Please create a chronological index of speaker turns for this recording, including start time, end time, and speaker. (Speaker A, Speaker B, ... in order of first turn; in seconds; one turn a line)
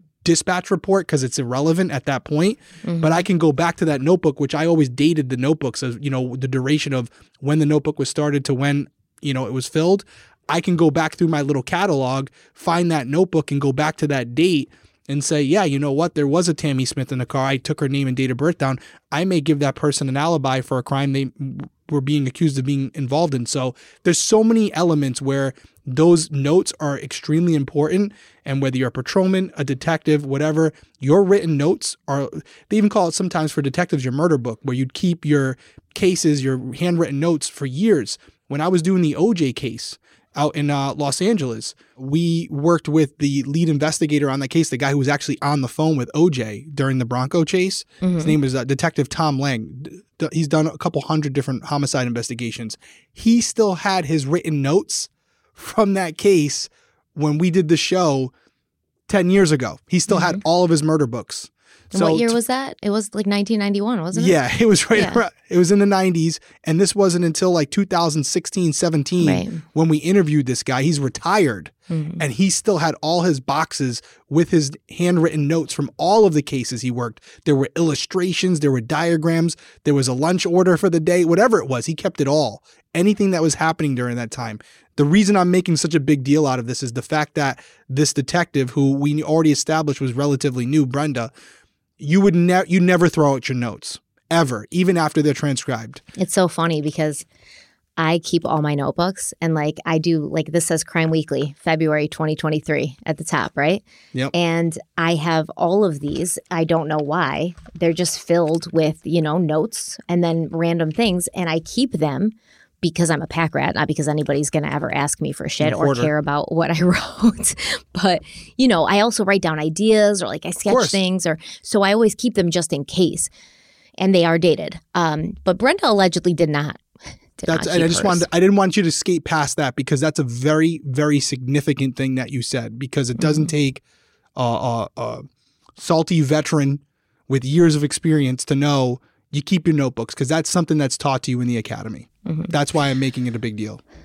Speaker A: 0.2-58.3
Speaker B: 2.8-3.2
Speaker B: 48.0-48.4
Speaker A: 59.1-62.4
Speaker B: 60.1-60.4
Speaker B: 61.9-64.4
Speaker A: 64.1-91.3
Speaker B: 65.0-65.2
Speaker B: 69.2-69.6
Speaker B: 71.9-72.2
Speaker A: 92.0-96.0
Speaker B: 96.2-97.2
Speaker B: 98.0-123.3
Speaker A: 115.6-116.1
Speaker A: 120.7-121.0
Speaker B: 124.0-126.8
Speaker B: 127.4-128.3
Speaker A: 127.5-133.8
Speaker B: 133.2-133.5
Speaker A: 134.4-135.3
Speaker A: 135.8-143.8
Speaker B: 142.3-142.5